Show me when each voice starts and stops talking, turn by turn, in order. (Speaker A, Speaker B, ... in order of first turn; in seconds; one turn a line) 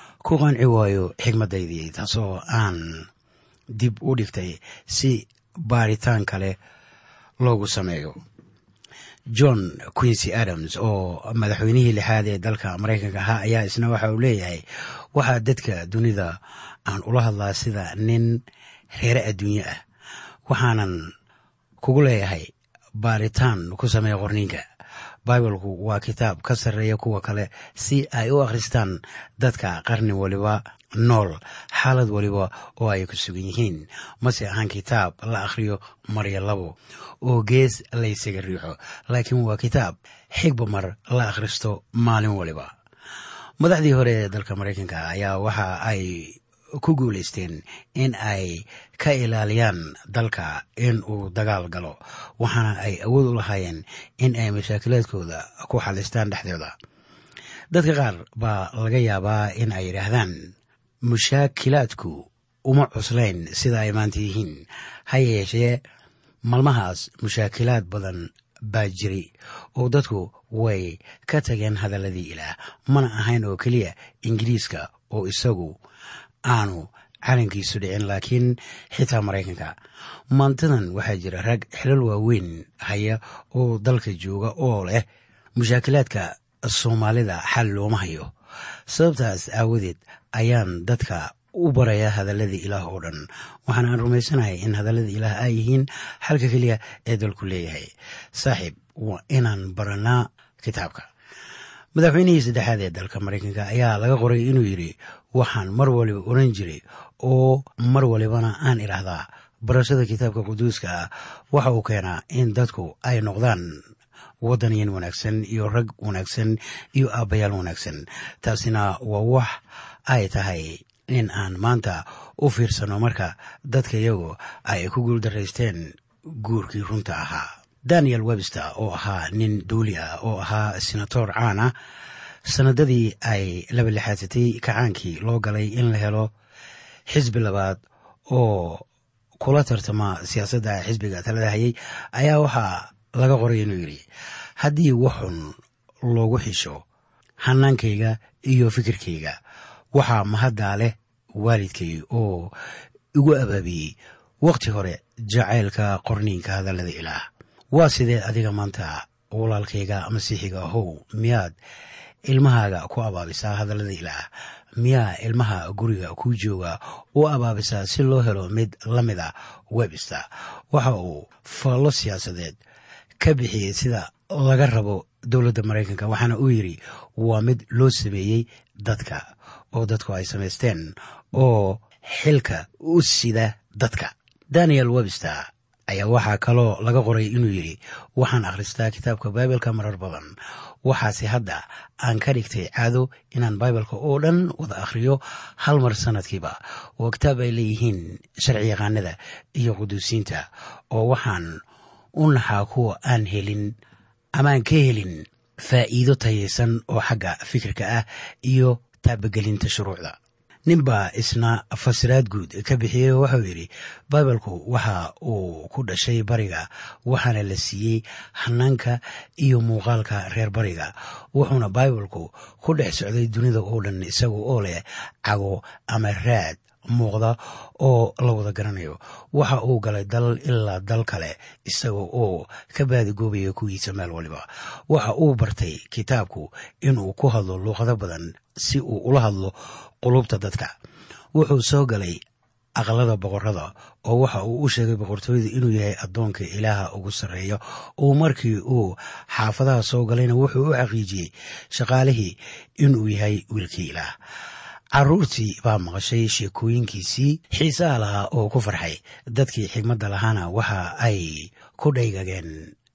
Speaker A: 0.2-3.1
Speaker A: 3.7-6.6
Speaker A: 7.4-8.2
Speaker A: 9.3-14.6
Speaker A: 15.1-18.4
Speaker A: 18.9-19.8
Speaker A: 20.5-21.1
Speaker A: 21.8-24.6
Speaker A: 25.2-42.7
Speaker A: 43.6-56.7
Speaker A: 57.7-60.5
Speaker A: 61.0-65.8
Speaker A: 66.5-75.8
Speaker A: 76.5-79.7
Speaker A: 80.3-85.0
Speaker A: 85.5-88.3
Speaker A: 88.9-101.1
Speaker A: 101.9-113.7
Speaker A: 114.4-119.5
Speaker A: 120.1-131.7
Speaker A: 132.4-136.3
Speaker A: 137.1-138.8
Speaker A: 139.4-144.0
Speaker A: 144.6-145.5
Speaker A: 146.1-146.8
Speaker A: 147.4-149.3
Speaker A: 149.9-152.5
Speaker A: 153.2-161.5
Speaker A: 162.2-164.2
Speaker A: 164.8-172.6
Speaker A: 173.2-190.3
Speaker A: 190.8-201.6
Speaker A: 202.2-203.7
Speaker A: 204.3-210.2
Speaker A: 210.7-240.7
Speaker A: 241.3-242.2
Speaker A: 242.8-254.1
Speaker A: 254.9-262.7